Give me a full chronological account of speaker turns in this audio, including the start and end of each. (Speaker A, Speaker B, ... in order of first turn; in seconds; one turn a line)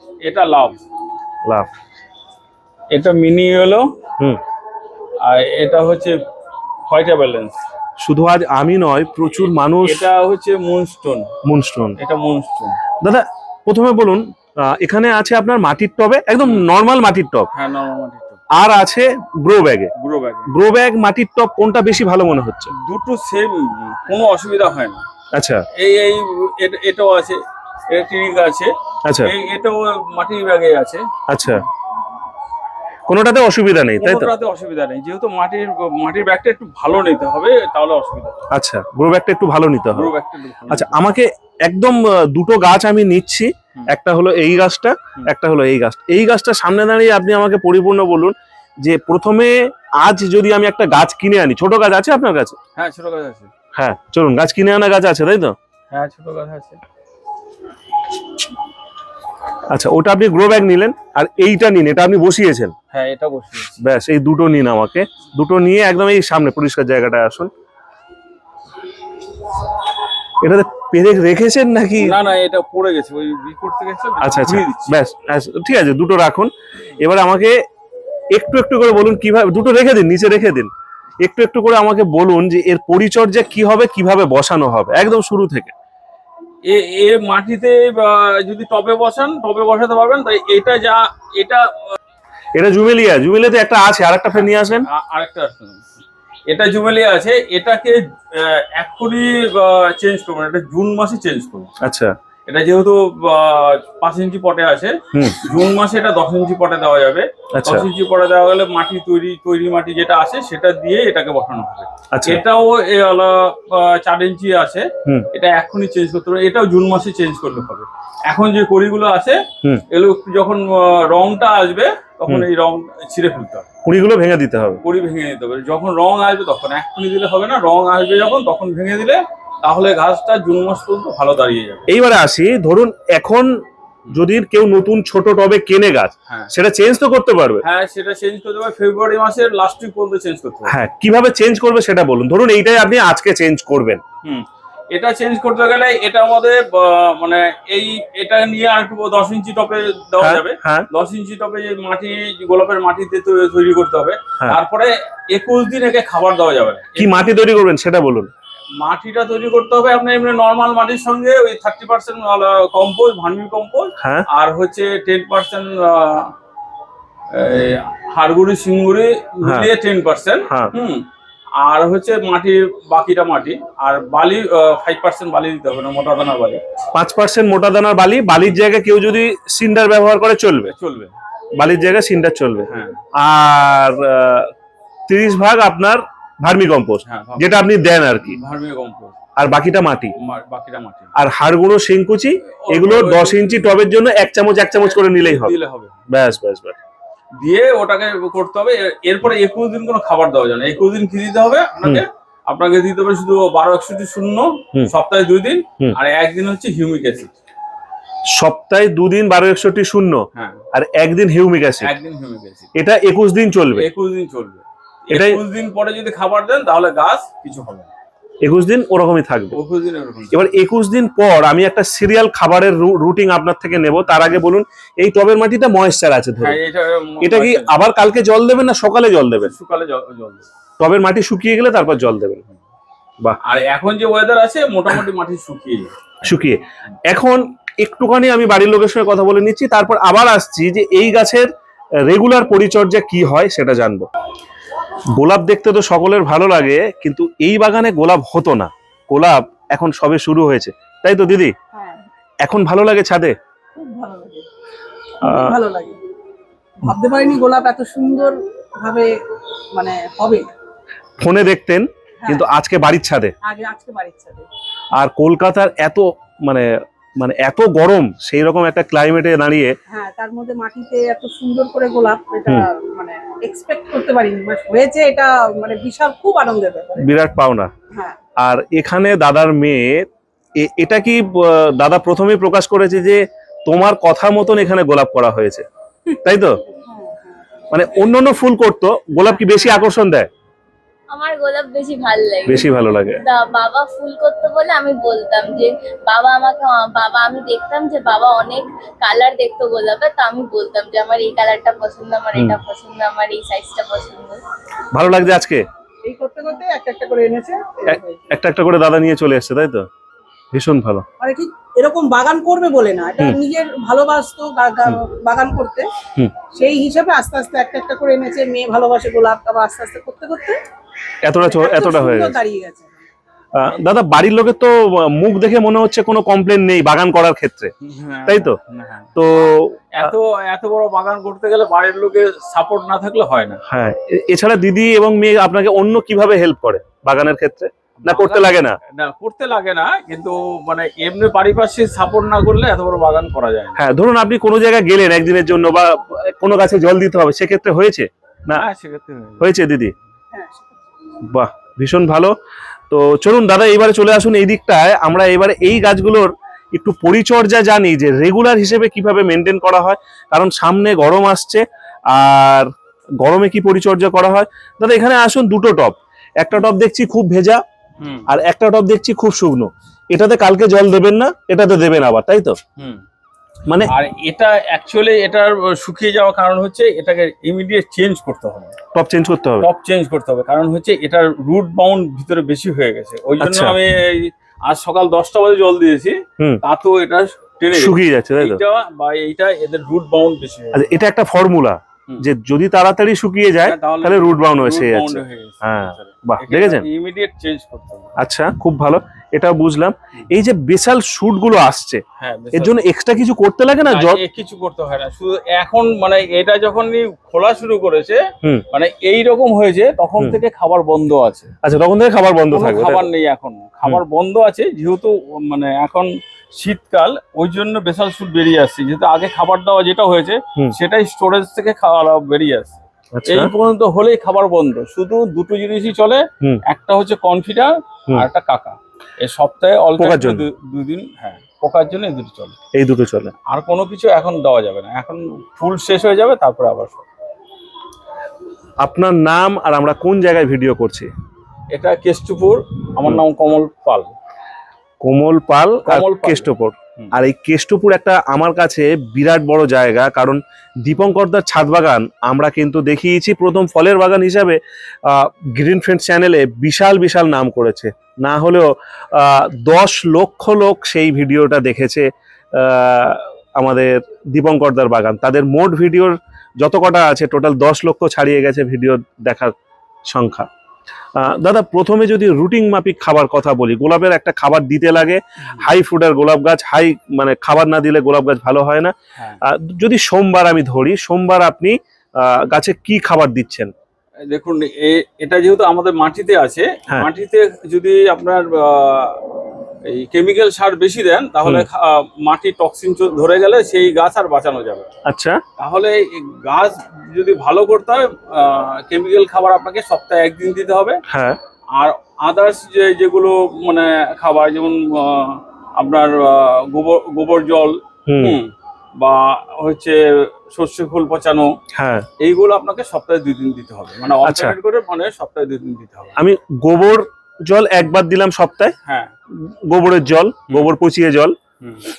Speaker A: 0.2-0.8
Speaker A: 2.9-3.9
Speaker A: 5.2-6.2
Speaker A: 6.9-7.6
Speaker B: 8.0-10.0
Speaker A: 9.8-11.3
Speaker B: 11.4-12.0
Speaker A: 12.0-12.8
Speaker B: 13.0-17.5
Speaker A: 17.5-18.4
Speaker B: 18.5-19.9
Speaker A: 19.9-20.5
Speaker B: 20.5-22.7
Speaker A: 22.7-25.0
Speaker B: 25.3-25.6
Speaker A: 25.7-31.6
Speaker B: 29.1-29.3
Speaker B: 31.3-31.6
Speaker B: 33.1-34.3
Speaker A: 34.0-38.4
Speaker B: 38.5-40.1
Speaker A: 39.9-41.0
Speaker B: 40.7-52.6
Speaker A: 52.8-53.5
Speaker B: 53.7-55.5
Speaker A: 55.9-56.8
Speaker B: 59.7-62.7
Speaker A: 62.9-63.8
Speaker B: 63.8-67.5
Speaker B: 70.4-72.2
Speaker A: 72.0-75.0
Speaker B: 74.2-77.6
Speaker B: 78.3-80.7
Speaker B: 81.2-85.7
Speaker A: 86.6-91.9
Speaker B: 92.5-94.8
Speaker A: 94.3-95.9
Speaker A: 96.5-101.7
Speaker B: 101.8-102.1
Speaker A: 102.5-123.7
Speaker B: 105.1-105.4
Speaker B: 107.6-107.8
Speaker B: 112.1-112.4
Speaker B: 123.8-124.8
Speaker A: 124.8-131.9
Speaker B: 131.9-137.6
Speaker A: 137.6-140.8
Speaker B: 140.7-144.0
Speaker A: 144.2-157.2
Speaker B: 150.2-150.9
Speaker B: 157.0-158.3
Speaker A: 158.8-166.3
Speaker B: 164.0-164.3
Speaker A: 167.3-171.1
Speaker B: 169.4-169.7
Speaker A: 171.6-176.6
Speaker B: 176.9-180.7
Speaker A: 180.7-181.1
Speaker B: 181.6-184.5
Speaker A: 182.7-183.0
Speaker B: 185.1-188.4
Speaker A: 187.0-187.6
Speaker A: 188.3-189.2
Speaker B: 189.4-190.1
Speaker A: 190.2-191.1
Speaker B: 191.2-195.5
Speaker A: 192.4-193.6
Speaker A: 195.1-196.0
Speaker B: 196.1-196.8
Speaker A: 197.4-207.3
Speaker B: 208.3-211.9
Speaker A: 210.3-210.6
Speaker A: 211.8-212.7
Speaker B: 212.8-213.9
Speaker A: 213.7-217.9
Speaker B: 215.1-215.4
Speaker B: 218.4-219.6
Speaker A: 219.5-220.4
Speaker B: 220.3-226.6
Speaker A: 226.4-227.7
Speaker B: 227.2-229.5
Speaker A: 229.4-230.5
Speaker B: 230.8-232.4
Speaker A: 233.4-236.2
Speaker B: 236.2-241.5
Speaker B: 242.0-244.1
Speaker B: 245.1-251.5
Speaker C: 251.7-252.0
Speaker B: 252.4-253.3
Speaker C: 253.7-254.4
Speaker B: 255.2-255.6
Speaker C: 255.2-256.0
Speaker C: 256.8-259.1
Speaker C: 259.7-260.4
Speaker B: 261.2-263.3
Speaker C: 262.2-262.5
Speaker C: 263.4-264.5
Speaker B: 264.9-269.7
Speaker C: 269.9-277.1
Speaker B: 277.0-277.7
Speaker C: 277.9-278.2
Speaker B: 278.4-280.1
Speaker B: 280.6-285.6
Speaker B: 286.2-286.6
Speaker C: 286.7-287.3
Speaker B: 287.7-290.3
Speaker C: 289.2-289.6
Speaker D: 291.1-304.4
Speaker B: 292.4-293.2
Speaker B: 304.9-305.6
Speaker C: 306.1-308.3
Speaker B: 307.9-309.9
Speaker B: 310.5-311.0
Speaker C: 311.2-315.9
Speaker C: 316.5-320.6
Speaker B: 321.2-322.4
Speaker C: 321.4-323.0
Speaker B: 323.5-327.7
Speaker A: 327.8-329.1
Speaker B: 328.3-328.6
Speaker B: 329.1-330.1
Speaker A: 329.9-333.6
Speaker B: 333.6-338.8
Speaker A: 338.0-343.8
Speaker B: 343.8-348.6
Speaker A: 348.5-349.5
Speaker B: 349.4-349.9
Speaker C: 350.3-350.8
Speaker B: 351.2-352.3
Speaker B: 352.9-367.6
Speaker A: 368.0-368.3
Speaker B: 368.3-372.6
Speaker A: 372.8-373.0
Speaker B: 373.6-373.9
Speaker A: 373.9-378.7
Speaker B: 378.9-379.7
Speaker A: 379.6-390.9
Speaker B: 383.4-383.8
Speaker B: 387.7-388.6
Speaker B: 390.7-396.8
Speaker A: 393.6-398.1
Speaker B: 398.2-404.2
Speaker A: 402.2-402.8
Speaker A: 403.9-411.5
Speaker B: 411.6-413.1
Speaker A: 412.5-432.6
Speaker B: 423.1-423.5
Speaker B: 430.0-430.4
Speaker B: 432.7-433.3
Speaker A: 433.4-437.1
Speaker B: 438.8-441.1
Speaker A: 441.7-444.1
Speaker B: 445.0-469.5
Speaker A: 445.8-447.1
Speaker B: 470.1-470.5
Speaker B: 471.1-483.7
Speaker A: 484.3-489.2
Speaker A: 489.8-494.9
Speaker B: 495.1-495.4
Speaker A: 495.6-501.0
Speaker B: 501.1-501.4
Speaker A: 501.8-511.5
Speaker B: 508.1-508.4
Speaker B: 511.7-512.1
Speaker A: 512.2-516.2
Speaker B: 514.2-514.5
Speaker B: 516.2-518.7
Speaker A: 518.9-519.1
Speaker B: 519.3-521.4
Speaker A: 521.6-521.9